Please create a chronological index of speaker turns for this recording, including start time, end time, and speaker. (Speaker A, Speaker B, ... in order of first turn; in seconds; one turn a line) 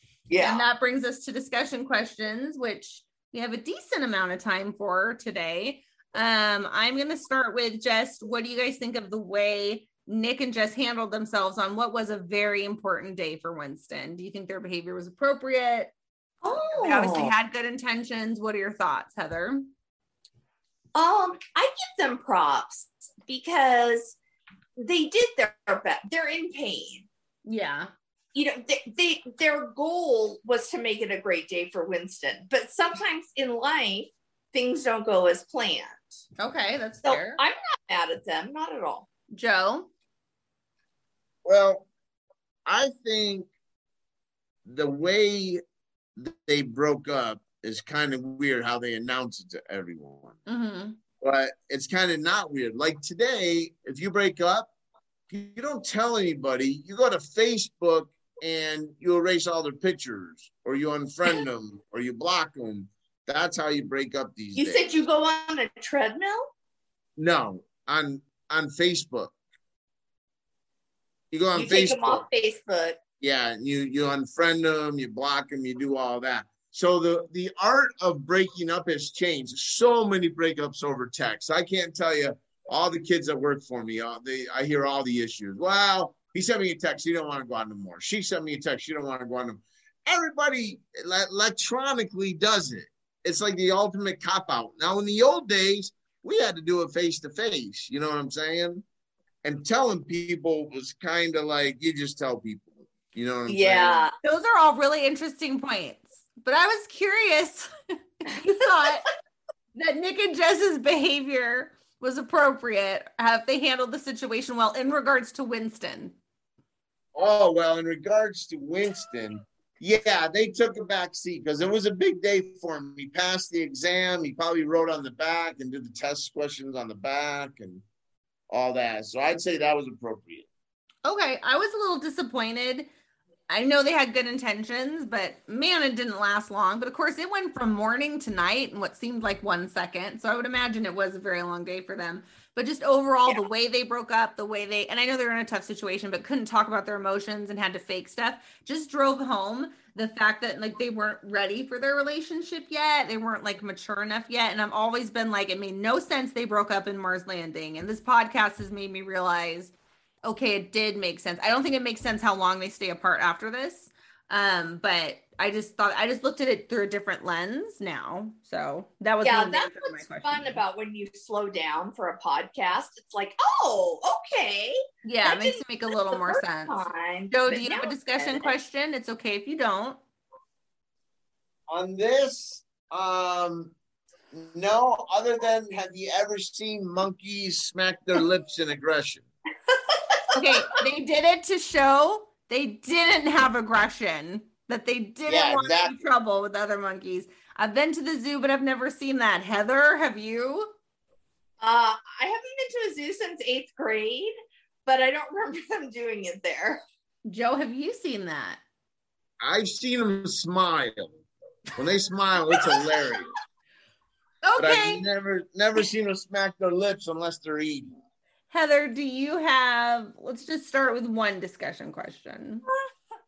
Speaker A: 0.3-0.6
Speaker B: 0.4-15.9
Speaker A: 16.4-17.3
Speaker B: 16.6-19.7
Speaker A: 20.9-24.2
Speaker A: 24.8-27.1
Speaker B: 27.4-27.9
Speaker A: 28.3-36.2
Speaker B: 36.4-37.4
Speaker A: 37.0-39.1
Speaker B: 39.3-39.9
Speaker C: 41.5-41.9
Speaker C: 42.7-43.5
Speaker C: 44.7-45.6
Speaker C: 46.2-50.4
Speaker B: 50.5-51.0
Speaker C: 51.2-54.7
Speaker C: 55.3-64.9
Speaker A: 64.6-66.4
Speaker C: 67.2-69.3
Speaker C: 71.3-72.2
Speaker A: 71.6-73.0
Speaker C: 73.2-98.8
Speaker C: 99.4-104.1
Speaker A: 103.5-104.1
Speaker B: 104.2-109.1
Speaker B: 109.8-116.2
Speaker C: 117.2-127.8
Speaker C: 128.5-130.5
Speaker B: 131.1-132.9
Speaker B: 133.5-159.7
Speaker B: 160.2-170.6
Speaker A: 169.2-178.5
Speaker B: 175.0-180.0
Speaker C: 181.7-183.7
Speaker C: 184.3-189.3
Speaker A: 189.9-190.2
Speaker B: 190.3-200.7
Speaker C: 195.3-195.9
Speaker A: 201.6-204.3
Speaker A: 204.9-206.8
Speaker B: 207.2-208.6
Speaker C: 209.4-211.2
Speaker C: 211.8-213.3
Speaker B: 214.4-215.0
Speaker C: 214.6-217.9
Speaker B: 218.5-222.7